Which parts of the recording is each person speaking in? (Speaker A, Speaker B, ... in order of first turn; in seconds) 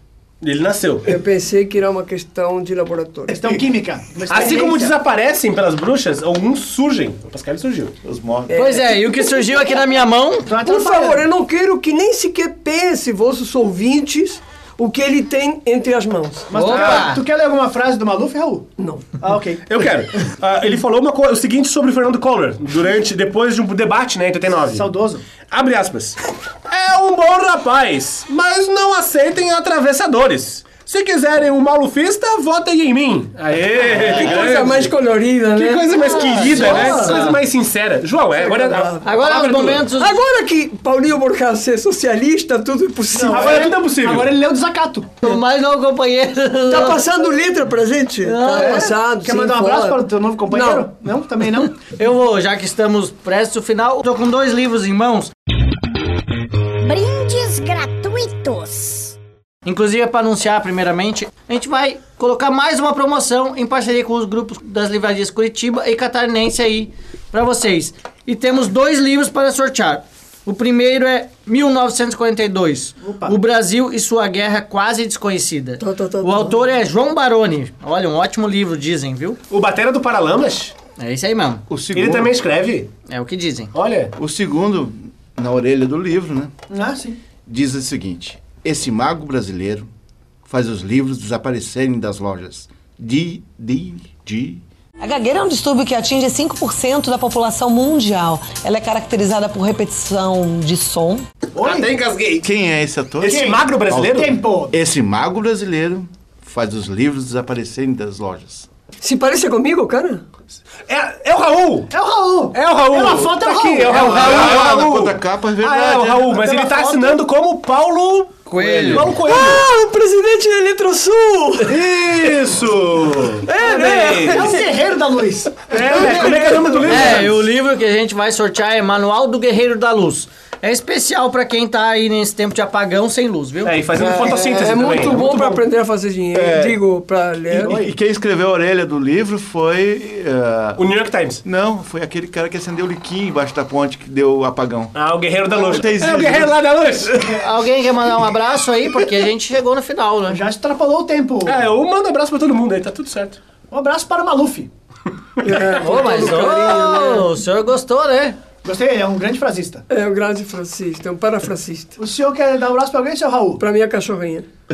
Speaker A: 0.4-1.1, 4.3-7.9, 19.7-24.9, 25.5-35.0, 35.5-39.9, 43.3-44.3, 79.5-80.7, 81.9-82.9, 83.7-84.1, 101.6-102.5, 103.2-104.3, 110.9-111.9, 112.5-119.6, 121.6-124.5, 125.8-127.5, 133.6-135.6, 140.8-141.4, 144.9-147.4, 151.4-153.4, 155.6-156.2
Speaker B: 1.1-3.6, 8.5-9.6, 10.6-17.0, 18.8-19.2, 33.9-37.0, 38.3-39.1, 40.0-43.8, 46.7-50.9, 75.8-76.7, 109.0-110.2, 119.2-122.2, 123.5-124.7, 125.7-127.3, 133.9-137.7, 155.4-157.3, 159.9-162.0, 163.6-164.5
Speaker C: 3.3-5.0, 10.5-11.2, 16.5-19.6, 24.7-25.2, 36.5-37.2, 43.1-45.1, 48.5-51.8, 73.0-73.4, 86.7-87.2, 101.5-101.9, 103.2-104.8, 111.9-114.3, 116.3-117.2, 124.3-126.8, 137.5-137.9, 150.3-151.6, 153.7-154.7, 158.6-159.8, 162.0-163.6
Speaker D: 8.0-8.5, 81.7-82.3, 84.2-86.5, 87.5-89.9, 90.5-94.6, 102.4-108.7, 113.9-116.4, 118.6-119.2, 136.3-136.8, 137.6-140.8, 141.4-146.6
Speaker E: 8.5-10.5, 16.5-17.2, 36.0-37.4, 39.0-40.2, 45.2-47.0, 48.2-48.9, 51.8-55.3, 59.6-79.4, 81.0-81.6, 83.1-83.7, 118.5-119.1, 126.8-133.8, 147.4-150.4, 155.8-158.4
Speaker F: 56.8-59.1
Speaker G: 95.0-101.2